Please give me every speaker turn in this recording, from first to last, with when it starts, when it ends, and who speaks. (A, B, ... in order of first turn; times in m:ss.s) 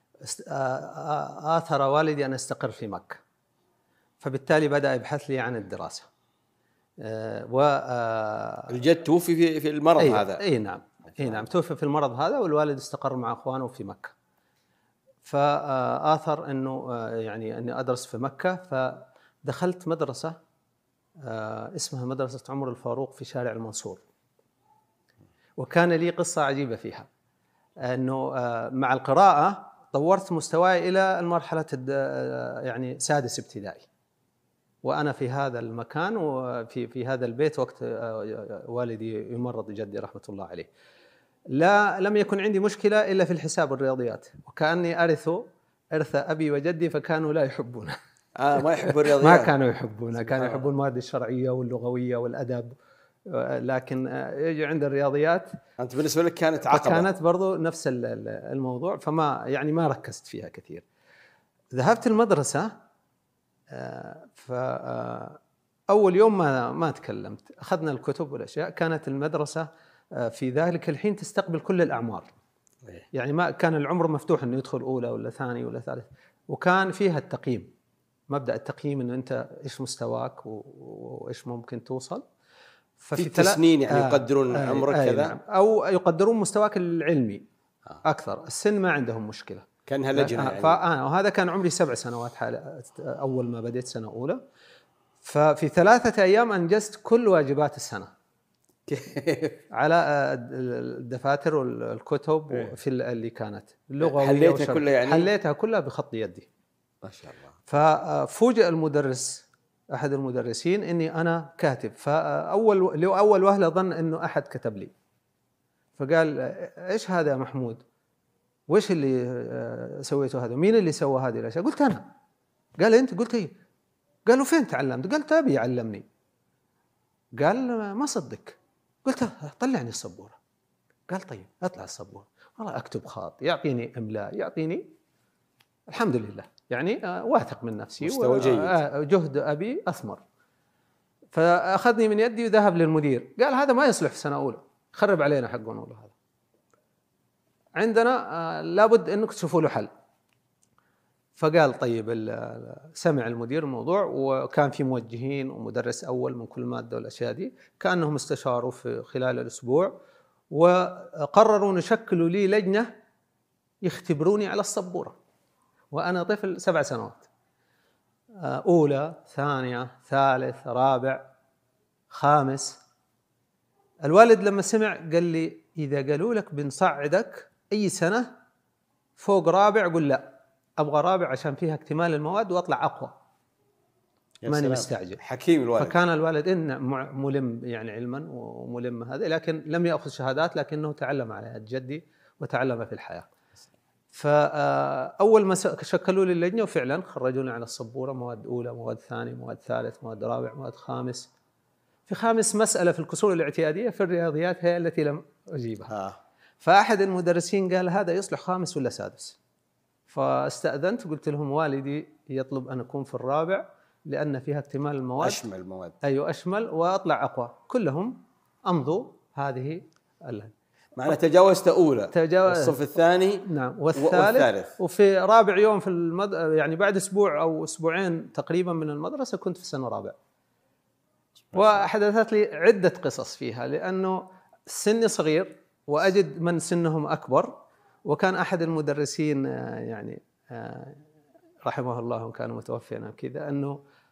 0:00.2-0:03.2 A
0:04.2-0:06.1 A
0:07.0-0:08.7 A
0:08.7-0:10.4 B
0:10.0-0:14.1 A
0:15.2-0:20.4 A
0:21.2-0:24.0 A
0:25.6-0:27.1 A
0:27.8-0:33.9 A
0:34.8-0:40.7 A
0:41.5-0:45.4 A
0:45.9-0:48.0 A
0:48.4-0:49.5 B
0:48.8-0:52.7 A
0:50.2-0:50.6 B
0:53.3-0:55.5 A
0:55.8-0:57.1 B
0:56.7-1:00.8 A
1:01.7-1:02.7 A
1:03.7-1:05.4 A
1:05.9-1:12.3 A
1:13.1-1:17.7 A
1:18.3-1:22.2 A
1:23.0-1:27.4 A
1:23.1-1:25.3 B
1:28.0-1:34.4 A
1:29.8-1:30.8 B
1:35.2-1:38.1 A
1:38.9-1:39.6 B
1:39.7-1:46.5 A
1:44.0-1:45.3 B
1:47.0-1:47.5 B
1:47.7-1:54.9 A
1:56.0-1:57.8 A
1:58.7-2:02.0 A
2:02.8-2:03.5 A
2:04.2-2:06.0 A
2:07.4-2:10.4 A
2:11.1-2:14.9 A
2:15.9-2:20.2 A
2:18.0-2:18.8 B
2:21.3-2:26.1 A
2:27.8-2:29.9 A
2:31.4-2:39.9 A
2:40.5-2:42.9 A
2:43.8-2:45.2 A
2:45.9-2:47.3 A
2:48.4-2:51.3 A
2:52.1-2:52.8 A
2:54.0-2:58.3 A
2:59.2-3:03.1 A
3:04.4-3:06.0 B
3:04.5-3:05.2 A
3:05.8-3:13.3 A
3:14.1-3:21.3 A
3:22.1-3:25.9 A
3:25.9-3:26.2 B
3:26.6-3:29.4 A
3:30.1-3:35.4 A
3:35.2-3:36.0 B
3:36.0-3:40.5 A
3:41.0-3:44.7 B
3:42.1-3:42.8 A
3:43.4-3:50.2 A
3:51.5-4:01.0 A
4:01.6-4:03.8 A